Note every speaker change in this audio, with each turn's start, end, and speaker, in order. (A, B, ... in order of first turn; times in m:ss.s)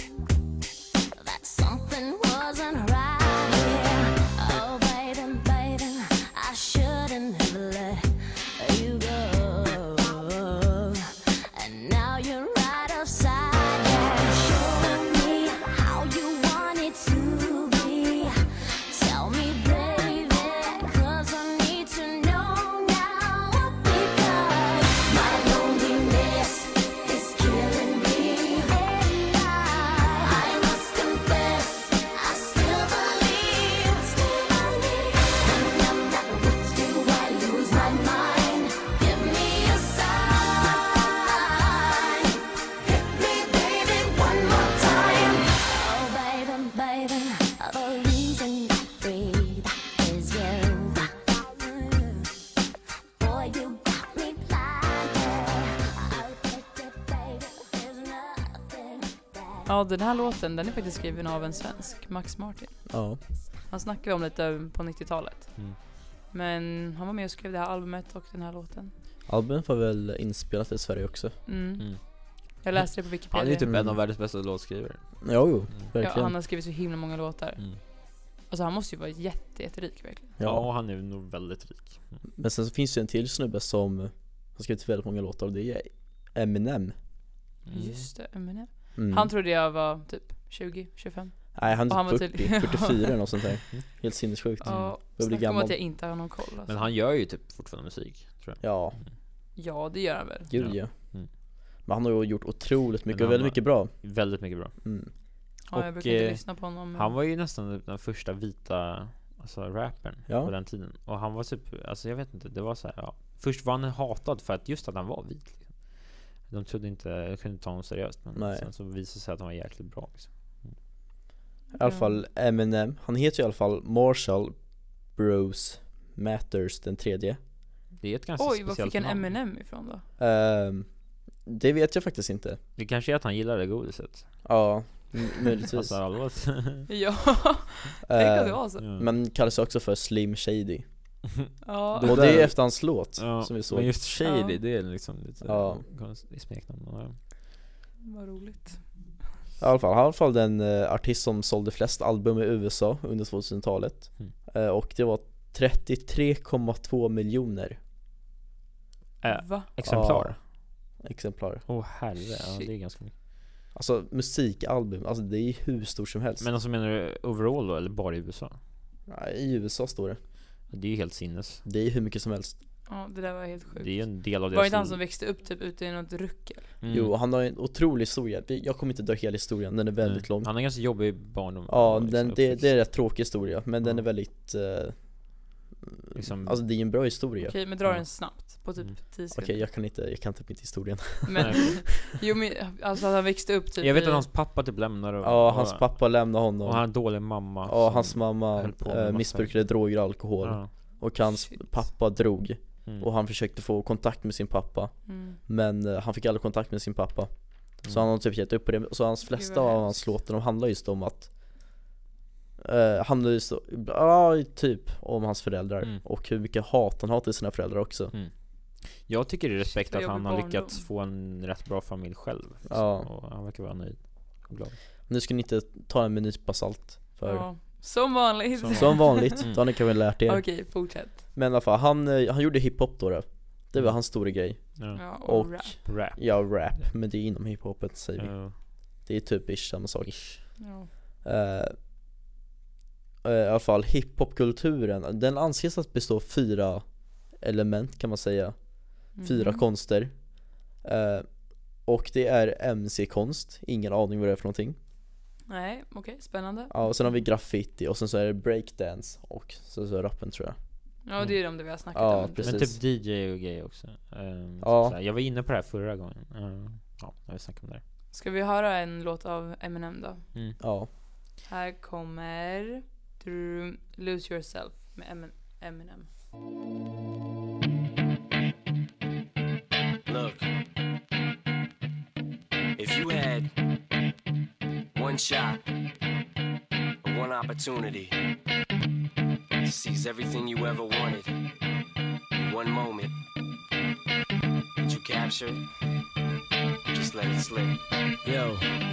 0:01.2-0:52.3 A
0:53.2-0:59.7 A
0:59.6-1:03.0 B
1:02.9-1:03.2 C
1:03.6-1:08.9 B
1:09.3-1:11.4 C
1:11.5-1:13.7 B
1:11.8-1:15.9 D
1:13.7-1:14.0 C
1:15.2-1:16.3 C
1:16.0-1:20.3 B
1:20.4-1:20.7 C
1:20.4-1:22.2 D
1:22.4-1:27.0 C
1:27.6-1:28.0 D
1:27.7-1:33.2 B
1:29.0-1:29.3 C
1:31.5-1:35.8 C
1:34.6-1:36.8 B
1:34.6-1:35.0 D
1:36.6-1:39.1 D
1:38.6-1:39.0 C
1:39.6-1:40.5 B
1:40.5-1:41.3 C
1:40.5-1:41.3 D
1:41.8-1:45.1 C
1:43.1-2:00.8 D
1:45.7-1:47.1 B
1:58.3-1:58.7 C
2:01.7-2:07.4 C
2:01.8-2:02.2 B
2:08.0-2:09.3 D
2:08.4-2:10.0 B
2:10.2-2:12.6 C
2:12.8-2:14.7 D
2:14.4-2:15.9 C
2:15.7-2:16.9 D
2:16.9-2:18.8 B
2:18.0-2:21.2 C
2:18.8-2:19.1 D
2:21.6-2:22.2 B
2:21.9-2:27.2 D
2:22.0-2:24.0 C
2:24.2-2:24.6 B
2:25.4-2:25.8 C
2:28.0-2:28.9 B
2:29.6-2:37.8 C
2:39.2-2:40.4 D
2:39.3-2:39.7 B
2:39.8-2:40.4 C
2:41.0-2:41.6 C
2:41.7-2:43.1 D
2:42.2-2:42.7 B
2:43.7-2:46.5 C
2:46.4-2:48.6 D
2:49.1-2:50.2 C
2:50.7-2:51.6 D
2:51.6-2:52.6 C
2:52.9-2:56.7 B
2:53.8-2:55.0 D
2:56.8-2:57.1 D
2:56.9-3:00.7 C
3:00.0-3:04.1 D
3:01.7-3:05.5 C
3:06.1-3:07.6 C
3:06.1-3:06.9 D
3:07.4-3:09.6 B
3:07.8-3:09.0 D
3:09.3-3:11.8 C
3:11.3-3:14.2 B
3:13.8-3:20.7 D
3:15.2-3:31.7 C
3:21.2-3:21.6 B
3:25.0-3:25.4 B
3:29.3-3:30.1 B
3:32.6-3:38.1 C
3:38.1-3:44.8 D
3:39.7-3:40.9 B
3:42.7-3:43.1 C
3:45.1-3:47.5 C
3:47.2-3:49.7 B
3:48.5-3:49.6 D
3:48.7-4:00.7 C
3:50.2-3:51.2 B
3:53.7-3:56.9 D
3:54.9-3:55.7 B
3:58.2-3:58.6 D
4:00.0-4:00.4 D
4:00.6-4:00.9 B
4:01.2-4:01.8 C
4:03.2-4:14.8 C
4:09.2-4:09.6 B
4:15.5-4:17.2 B
4:16.7-4:20.6 C
4:21.0-4:22.7 B
4:21.2-4:21.6 D
4:21.9-4:22.8 C
4:22.4-4:27.8 D
4:24.6-4:25.0 C
4:28.1-4:30.2 B
4:30.6-4:30.9 C
4:31.5-4:36.1 B
4:40.1-4:40.5 E
4:42.8-4:43.5 E
4:44.9-4:45.6 E
4:47.0-4:48.2 E
4:49.6-4:51.4 E
4:52.4-4:53.1 E
4:54.8-4:55.6 E
4:56.9-4:58.7 E